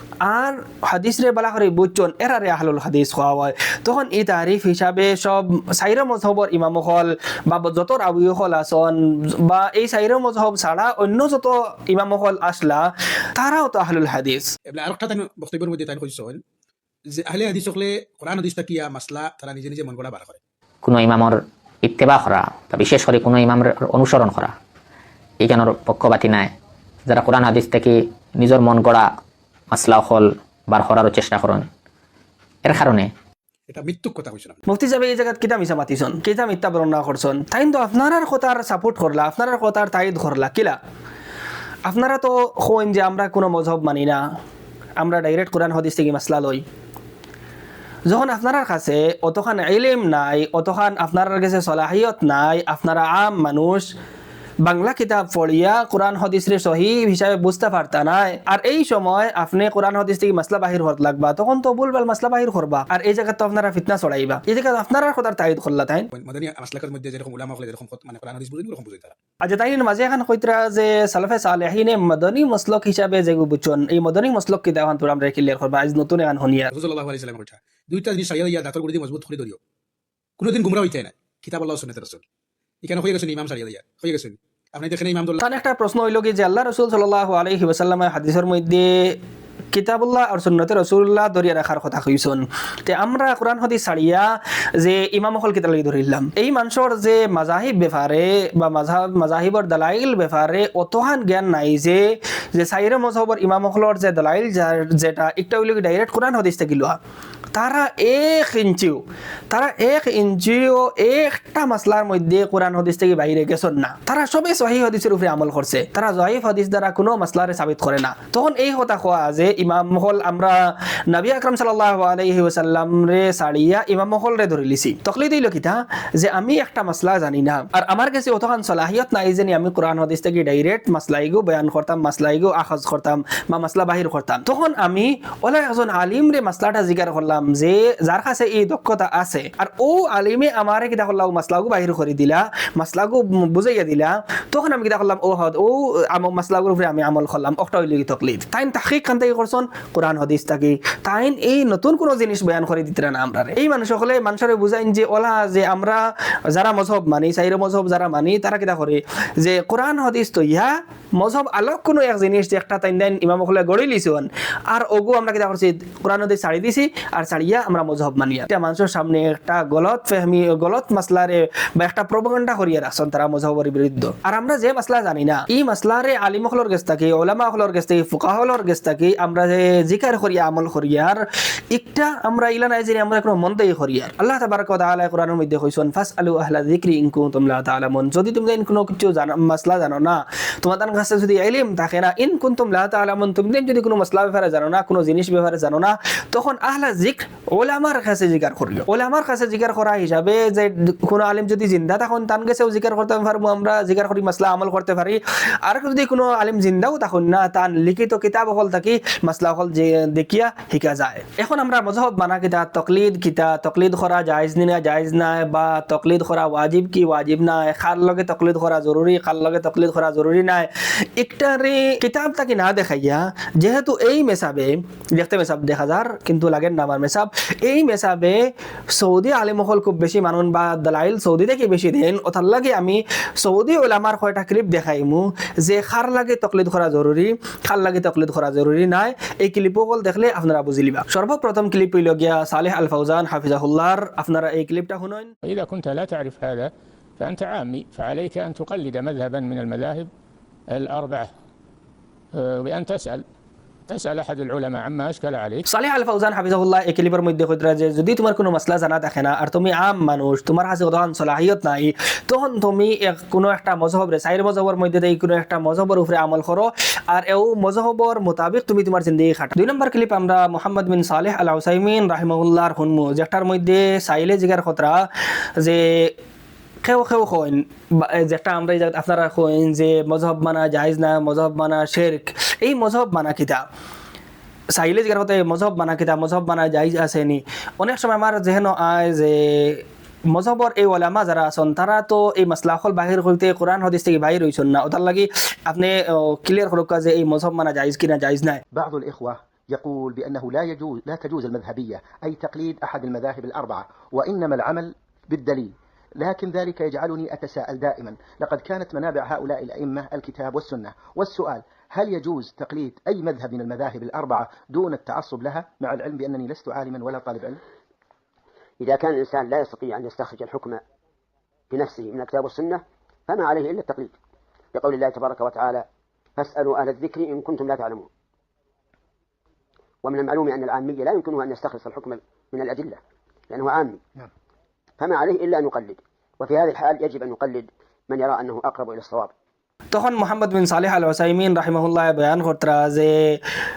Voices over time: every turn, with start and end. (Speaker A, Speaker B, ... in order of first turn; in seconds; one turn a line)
Speaker A: 0.2-14.5
Speaker B: 14.7-16.4
Speaker B: 17.2-20.4
Speaker C: 20.8-24.5
Speaker C: 25.4-26.5
Speaker C: 27.1-29.1
Speaker C: 29.7-31.7
Speaker C: 32.6-33.1
Speaker B: 33.7-34.6
Speaker A: 34.7-40.8
Speaker A: 41.9-44.2
Speaker A: 45.0-46.6
Speaker A: 48.1-53.9
Speaker A: 54.6-66.1
Speaker B: 66.2-69.2
Speaker A: 69.4-76.7
Speaker B: 76.7-79.6
Speaker B: 80.4-82.2
Speaker B: 82.8-85.4
Speaker A: 85.4-89.2
Speaker A: 89.7-107.0
Speaker A: 107.5-228.4
Speaker A: 228.9-245.3
Speaker D: 245.4-250.1
Speaker D: 250.7-251.3
Speaker D: 252.3-253.2
Speaker D: 253.9-255.7
Speaker A: 255.7-275.1
Speaker A: 275.6-276.1
Speaker A: 276.8-283.6
Speaker A: 284.8-298.6
Speaker E: 298.7-317.6
Speaker F: 318.8-320.8
Speaker F: 321.7-324.1
Speaker F: 324.8-325.9
Speaker F: 326.4-328.1
Speaker F: 330.0-333.0
Speaker F: 333.5-334.0
Speaker F: 335.0-339.3
Speaker A: 339.9-343.4